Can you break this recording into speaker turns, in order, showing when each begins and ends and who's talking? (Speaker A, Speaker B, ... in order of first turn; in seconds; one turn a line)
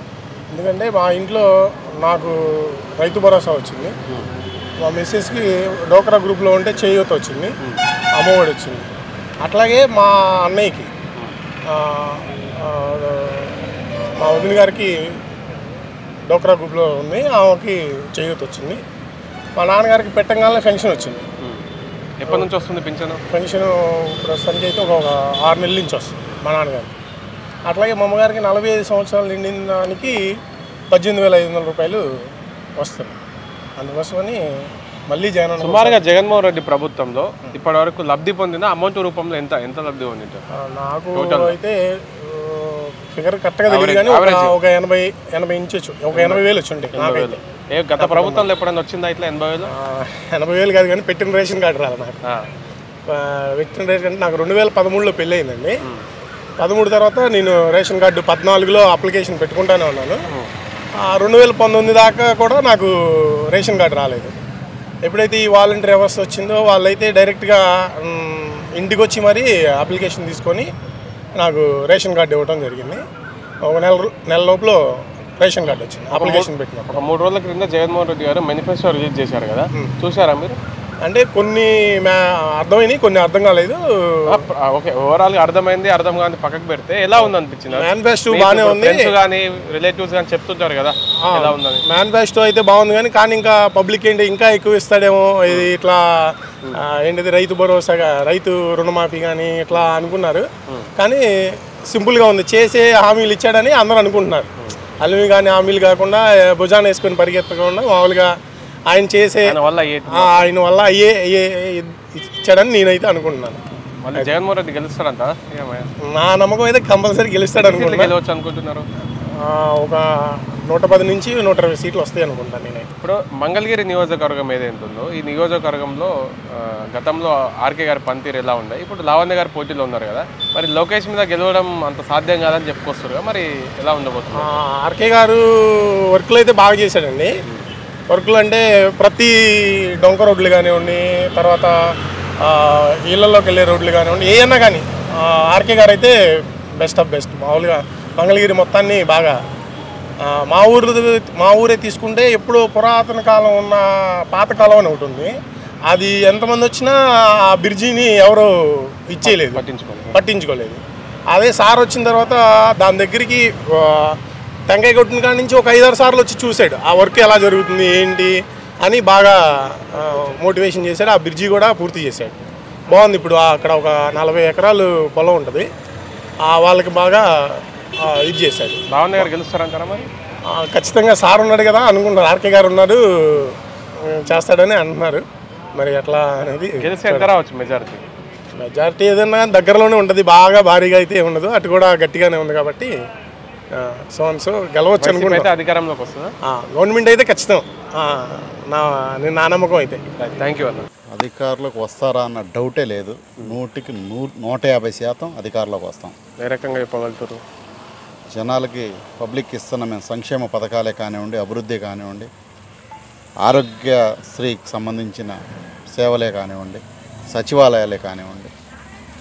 Speaker A: 0.5-4.0
Speaker A: 4.8-7.5
Speaker A: 8.2-8.9
Speaker A: 9.4-10.9
Speaker A: 11.7-13.6
Speaker A: 14.2-15.2
Speaker A: 16.3-18.8
Speaker A: 19.6-21.2
Speaker B: 22.2-23.2
Speaker A: 23.3-26.9
Speaker A: 27.6-30.4
Speaker A: 30.9-32.2
Speaker A: 32.8-33.2
Speaker A: 33.8-36.0
Speaker B: 35.6-40.4
Speaker A: 40.5-47.4
Speaker B: 41.1-41.6
Speaker B: 43.7-44.5
Speaker B: 46.1-49.7
Speaker A: 48.0-48.5
Speaker A: 49.7-52.2
Speaker A: 53.1-55.8
Speaker A: 56.6-60.2
Speaker A: 61.0-64.4
Speaker A: 65.0-70.7
Speaker A: 71.3-73.0
Speaker A: 73.6-77.0
Speaker B: 76.1-80.6
Speaker A: 81.0-84.4
Speaker B: 84.3-91.8
Speaker A: 87.7-89.1
Speaker A: 91.2-101.2
Speaker B: 95.5-95.7
Speaker A: 101.8-108.3
Speaker A: 108.9-109.6
Speaker B: 109.4-110.5
Speaker A: 110.1-113.6
Speaker B: 114.0-115.9
Speaker A: 116.0-118.1
Speaker B: 117.6-118.9
Speaker A: 119.2-122.9
Speaker B: 123.0-134.6
Speaker A: 134.3-137.3
Speaker A: 138.1-149.4
Speaker A: 150.2-155.3
Speaker A: 155.9-159.6
Speaker B: 159.2-160.2
Speaker A: 160.1-172.3
Speaker A: 172.9-175.7
Speaker A: 176.4-179.3
Speaker B: 178.9-180.1
Speaker A: 180.5-187.3
Speaker B: 186.8-188.1
Speaker A: 188.5-192.9
Speaker A: 193.7-195.5
Speaker B: 195.0-196.3
Speaker A: 196.4-200.0
Speaker B: 200.2-200.9
Speaker C: 201.1-206.1
Speaker B: 206.4-207.4
Speaker C: 208.3-212.3
Speaker C: 213.4-215.4
Speaker C: 215.9-218.5